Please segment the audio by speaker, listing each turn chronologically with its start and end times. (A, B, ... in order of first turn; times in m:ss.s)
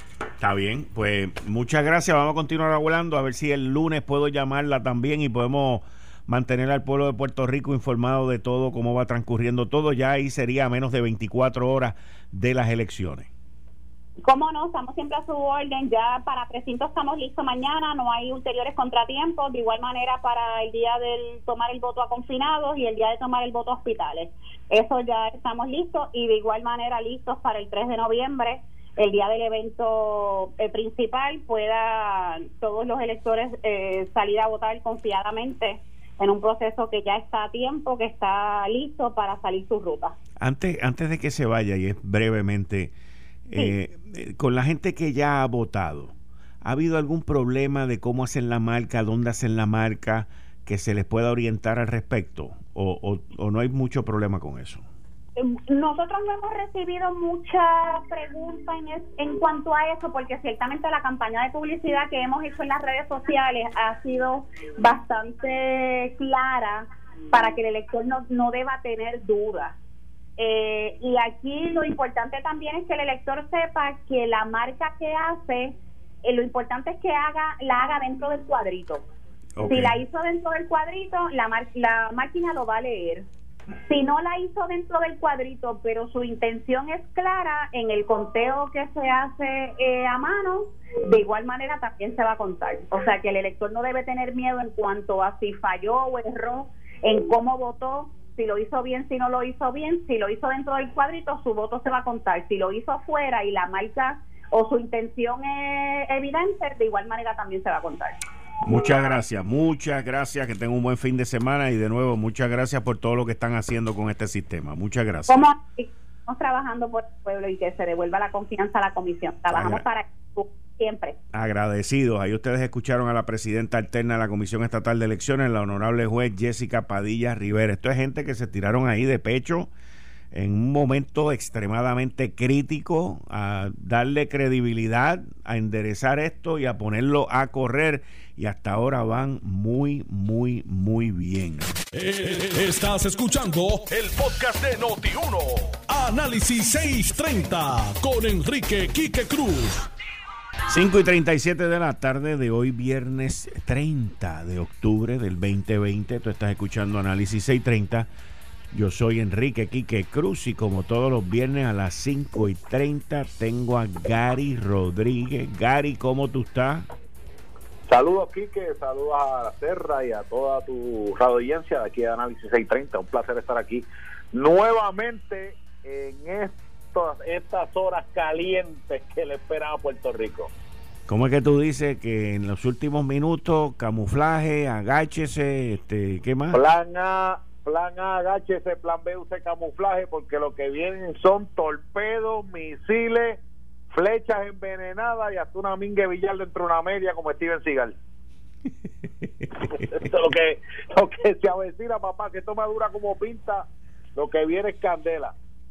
0:00.4-0:13.3 A
0:14.2-0:40.2 B
0:40.4-0:42.9 A
0:43.5-0:54.8 A
0:55.4-1:09.8 B
1:10.4-1:19.1 B
1:19.6-1:20.0 A
1:19.7-1:23.3 B
1:23.9-1:48.2 B
1:48.6-1:55.4 A
1:55.3-2:01.2 B
1:59.5-1:59.8 A
2:01.3-2:09.7 A
2:10.3-2:21.8 A
2:21.9-2:29.9 C
2:30.7-2:38.1 A
2:38.7-2:46.9 A
2:47.9-3:00.5 D
3:01.1-3:06.6 A
3:06.5-3:13.4 D
3:13.9-3:18.0 D
3:19.2-3:19.6 A
3:19.7-3:25.4 D